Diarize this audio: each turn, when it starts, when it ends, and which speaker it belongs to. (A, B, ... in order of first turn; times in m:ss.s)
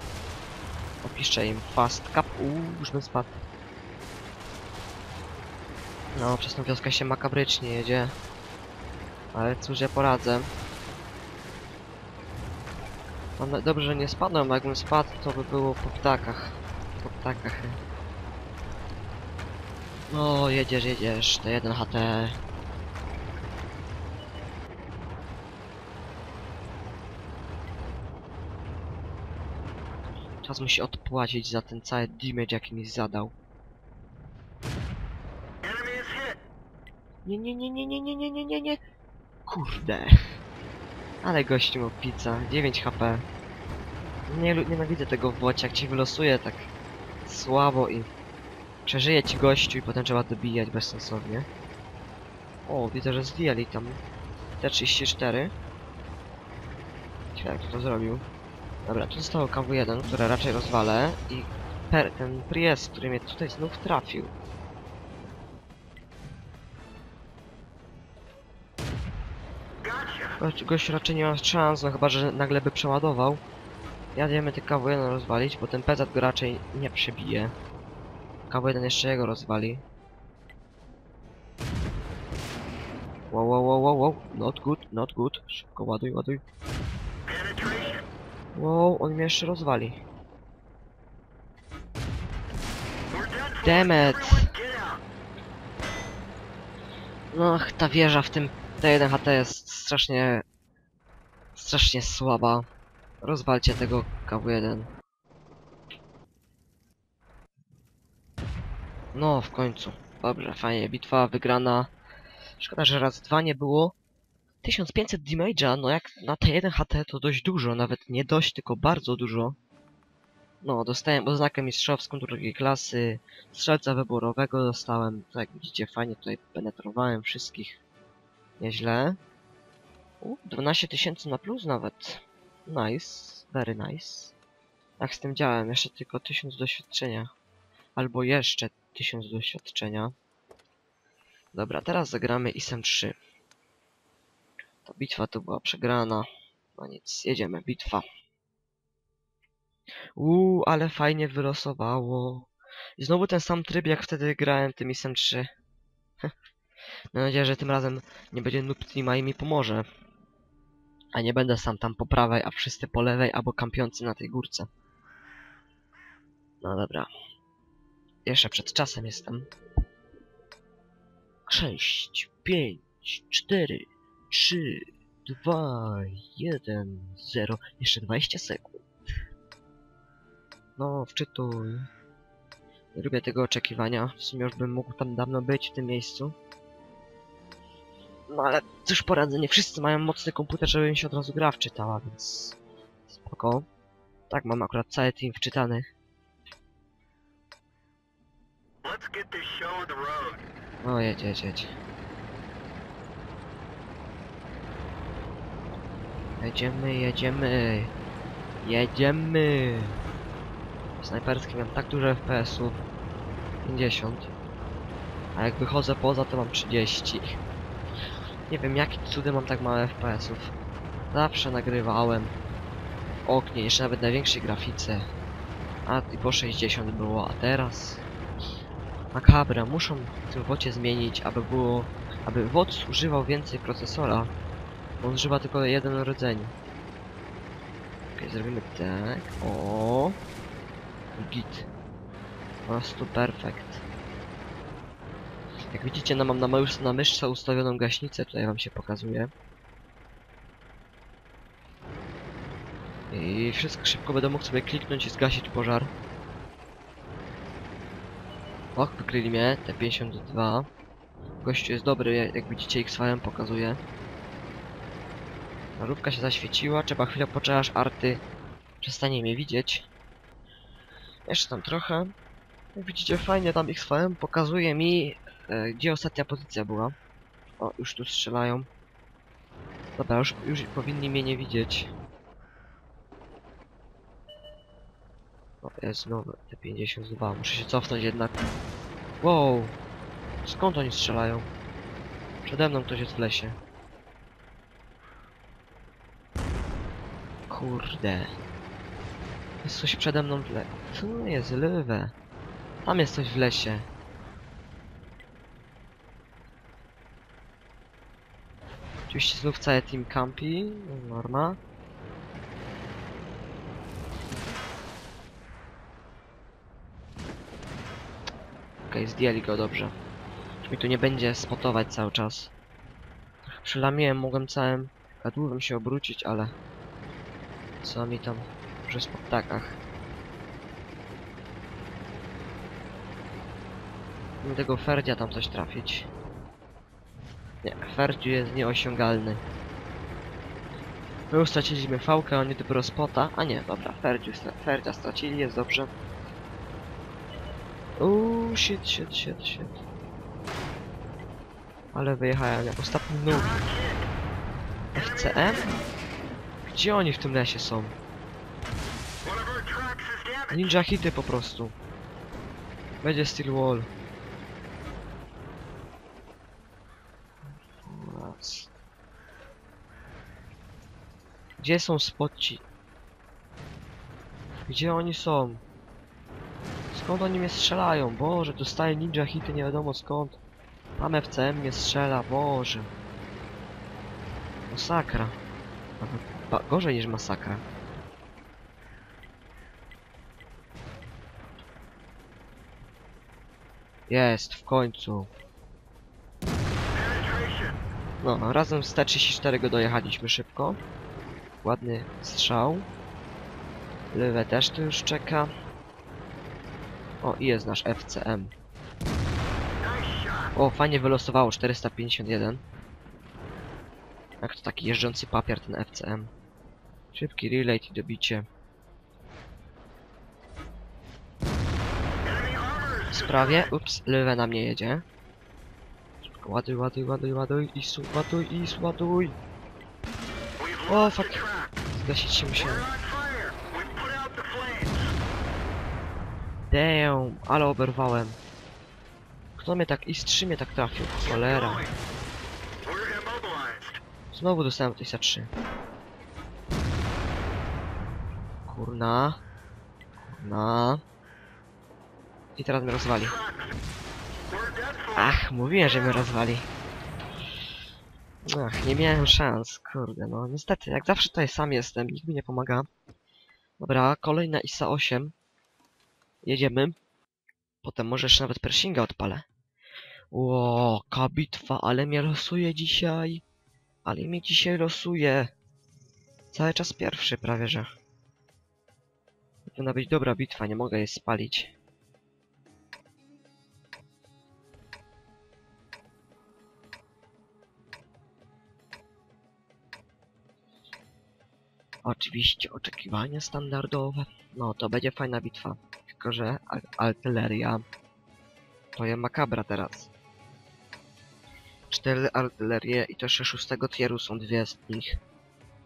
0:01.0-0:03.4 A
0:06.1-0:08.1 A
0:09.3-0:10.5 A
0:13.4-0:17.8 A
0:20.1-0:22.4 A
0:30.4-0:33.3 A
0:35.6-0:36.4 B
0:37.2-0:38.8 A
0:39.5-0:40.3 A
0:41.2-0:43.2 A
0:44.3-0:46.7 A
0:47.2-0:48.1 A
0:48.8-0:51.5 A
0:52.6-0:54.0 A
0:54.6-0:55.5 A
0:57.3-0:58.2 A
0:58.8-1:04.3 A
1:09.8-1:10.4 B
1:10.4-1:13.4 A
1:14.1-1:17.5 A
1:18.5-1:19.8 A
1:23.3-1:26.4 A
1:27.2-1:28.0 B
1:28.5-1:30.0 A
1:33.1-1:35.0 B
1:33.6-1:34.5 A
1:37.3-1:40.4 A
1:41.5-1:42.6 A
1:43.2-1:44.9 A
1:49.1-1:51.9 A
1:52.6-1:53.9 A
1:54.6-1:59.6 A
2:00.6-2:07.8 A
2:08.6-2:09.2 A
2:10.2-2:14.3 A
2:15.0-2:17.3 A
2:18.0-2:20.1 A
2:21.5-2:23.2 A
2:24.8-2:28.0 A
2:30.2-2:35.5 A
2:37.1-2:39.9 A
2:41.1-2:44.7 A
2:46.6-2:47.1 A
2:48.2-2:49.5 A
2:51.5-2:58.8 A
3:00.8-3:01.9 A
3:02.9-3:06.3 A
3:08.3-3:12.6 A
3:13.1-3:13.7 A
3:14.3-3:15.9 A
3:18.8-3:20.4 B
3:20.8-3:21.7 A
3:26.4-3:27.9 A
3:28.6-3:30.0 A
3:31.0-3:32.8 A
3:33.6-3:34.3 A
3:35.3-3:37.4 A
3:38.5-3:40.5 A
3:41.1-3:42.3 A
3:43.2-3:45.1 A
3:45.8-3:48.0 A
3:49.1-3:54.3 A
3:55.0-3:56.5 A
3:58.2-4:00.2 A
4:01.1-4:01.7 A
4:02.6-4:03.8 A
4:05.7-4:09.3 A
4:13.1-4:15.9 A
4:18.7-4:20.7 A
4:21.4-4:23.8 A
4:25.8-4:28.2 A
4:28.8-4:29.9 A
4:31.3-4:32.1 A
4:32.7-4:36.9 A
4:37.6-4:38.7 A
4:40.0-4:41.9 A
4:45.6-4:48.3 A
4:49.2-4:49.7 A
4:50.4-4:51.5 A
4:52.4-4:53.6 A
4:57.5-4:58.3 A
4:59.6-5:02.1 A
5:02.8-5:03.9 A
5:09.1-5:11.6 A
5:18.9-5:20.0 A
5:20.6-5:22.5 A
5:23.5-5:26.5 A
5:27.8-5:29.8 A
5:34.4-5:36.1 A
5:37.6-5:39.4 A
5:41.3-5:45.9 A
5:48.0-5:49.8 A
5:51.9-5:53.5 A
5:53.3-5:54.0 B
5:54.9-5:55.7 A
5:55.0-5:55.6 B
5:56.6-5:57.9 A
5:59.2-6:00.6 B
6:00.5-6:01.7 A
6:03.0-6:03.9 A
6:07.8-6:08.7 A
6:11.6-6:12.6 A
6:14.6-6:15.6 A
6:16.9-6:20.4 A
6:21.0-6:22.9 A
6:24.7-6:25.4 A
6:26.0-6:27.6 A
6:34.1-6:35.3 A
6:36.9-6:37.8 B
6:38.2-6:40.8 A
6:41.6-6:42.9 A
6:44.1-6:45.5 A
6:47.2-6:48.5 A
6:49.8-6:50.5 B
6:50.5-6:52.6 A
6:54.4-6:56.3 A
6:57.1-6:58.4 A
7:02.2-7:03.7 B
7:03.1-7:05.0 A
7:06.4-7:09.4 A
7:10.6-7:11.8 B
7:10.9-7:12.9 A
7:12.5-7:15.2 B
7:16.7-7:18.4 A
7:19.6-7:21.9 A
7:21.2-7:21.9 B
7:22.8-7:24.0 B
7:24.3-7:25.5 A
7:28.6-7:29.4 A
7:30.2-7:31.0 A
7:32.6-7:33.4 A
7:33.2-7:33.7 B
7:34.5-7:36.3 B
7:35.1-7:36.7 A
7:38.4-7:42.9 A
7:43.8-7:45.3 A
7:46.4-7:47.0 A
7:47.8-7:49.4 A
7:50.3-7:53.4 A
7:54.0-7:55.5 A
7:56.5-7:57.9 A
7:59.7-8:01.7 A
8:12.0-8:17.8 A
8:19.0-8:20.1 A
8:21.9-8:25.2 A